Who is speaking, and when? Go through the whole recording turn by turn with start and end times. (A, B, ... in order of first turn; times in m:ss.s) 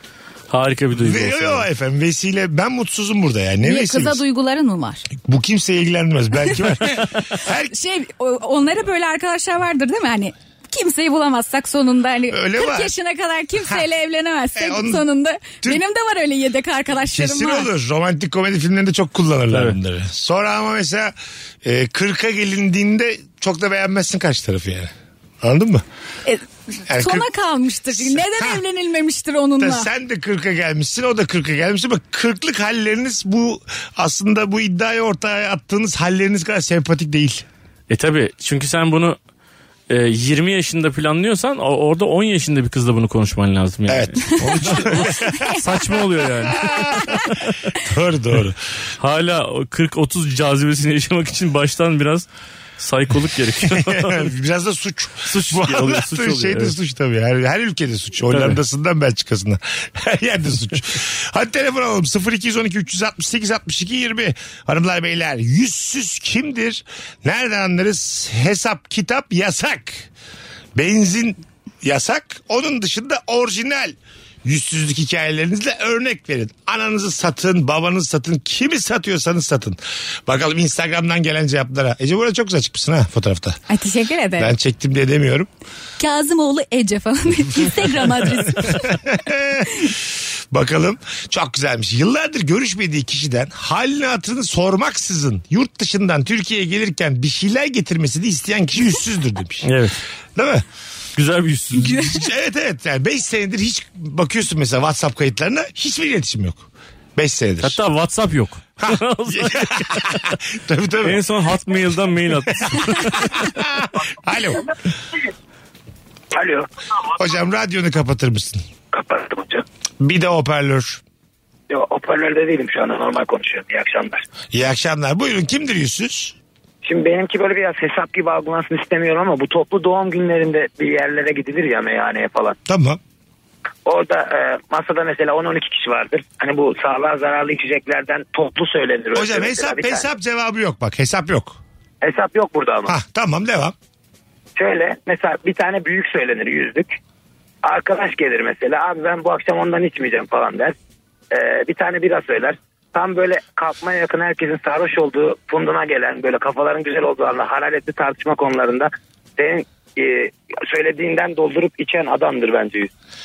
0:00.5-0:01.6 A
0:00.9-0:04.2 B
0:03.6-0:05.1 C
0:05.2-0:07.7 B
0:07.7-0:17.7 C
0:12.3-0:12.9 B
0:14.6-0:15.0 B
0:17.1-0:25.8 B
0:26.2-0:29.9 C
0:26.9-0:27.3 B
0:27.9-0:28.6 B
0:29.6-0:37.5 B
0:37.9-0:39.2 A
0:39.9-0:47.3 A
0:43.9-0:45.5 B
0:46.4-0:47.2 B
0:47.8-0:48.6 B
0:49.0-0:52.3 A
0:52.8-0:54.3 A
0:53.6-1:10.1 B
0:55.3-0:56.8 A
0:58.3-0:58.6 A
1:10.8-1:23.6 B
1:23.7-1:24.6 C
1:24.4-1:25.5 B
1:26.0-1:29.0 C
1:27.8-1:39.7 B
1:39.6-1:40.0 A
1:40.4-1:40.6 B
1:41.2-1:42.0 A
1:41.8-1:47.8 B
1:41.8-1:42.2 C
1:47.6-1:50.3 A
1:48.8-1:51.2 B
1:51.0-1:53.4 A
1:52.6-1:54.7 B
1:56.3-1:56.7 D
1:57.2-1:58.7 B
1:58.9-1:59.6 D
2:00.0-2:01.0 B
2:01.7-2:04.2 D
2:04.5-2:06.4 B
2:06.8-2:12.6 D
2:12.7-2:13.0 B
2:13.8-2:20.0 D
2:19.1-2:21.6 B
2:22.0-2:23.0 D
2:22.9-2:23.8 B
2:24.6-2:26.9 D
2:27.6-2:30.7 D
2:31.3-2:42.9 D